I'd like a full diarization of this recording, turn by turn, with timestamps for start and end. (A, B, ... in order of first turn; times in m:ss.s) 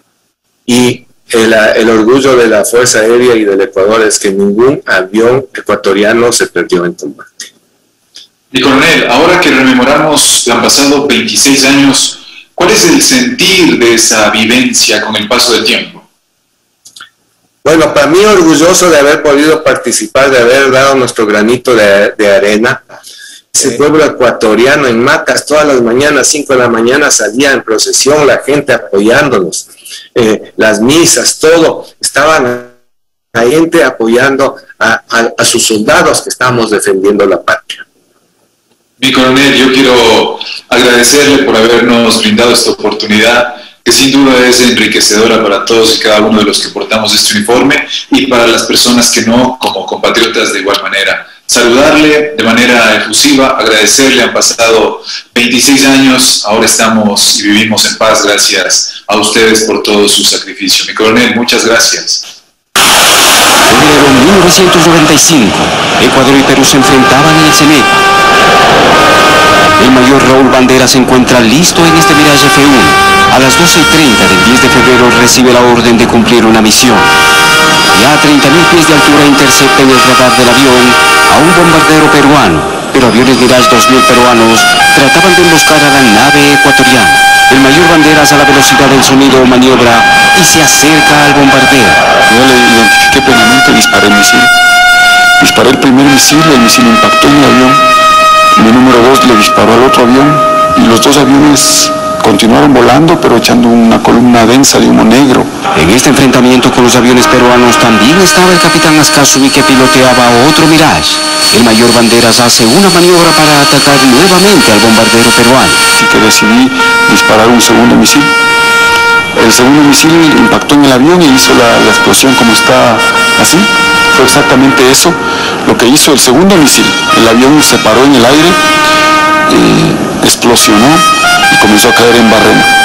0:00.7-0:07.3 A
0:08.5-0:16.0 B
0:17.6-0:22.8 A
0:23.5-0:32.7 A
0:33.3-0:37.8 A
0:39.0-1:02.2 B
1:03.7-1:08.0 C
1:09.8-1:17.1 C
1:17.9-1:32.1 C
1:32.2-1:34.5 D
1:35.4-1:37.8 D
1:38.6-1:45.6 D
1:45.7-1:55.8 C
1:56.0-1:58.3 D
1:59.4-2:08.6 D
2:09.5-2:12.7 D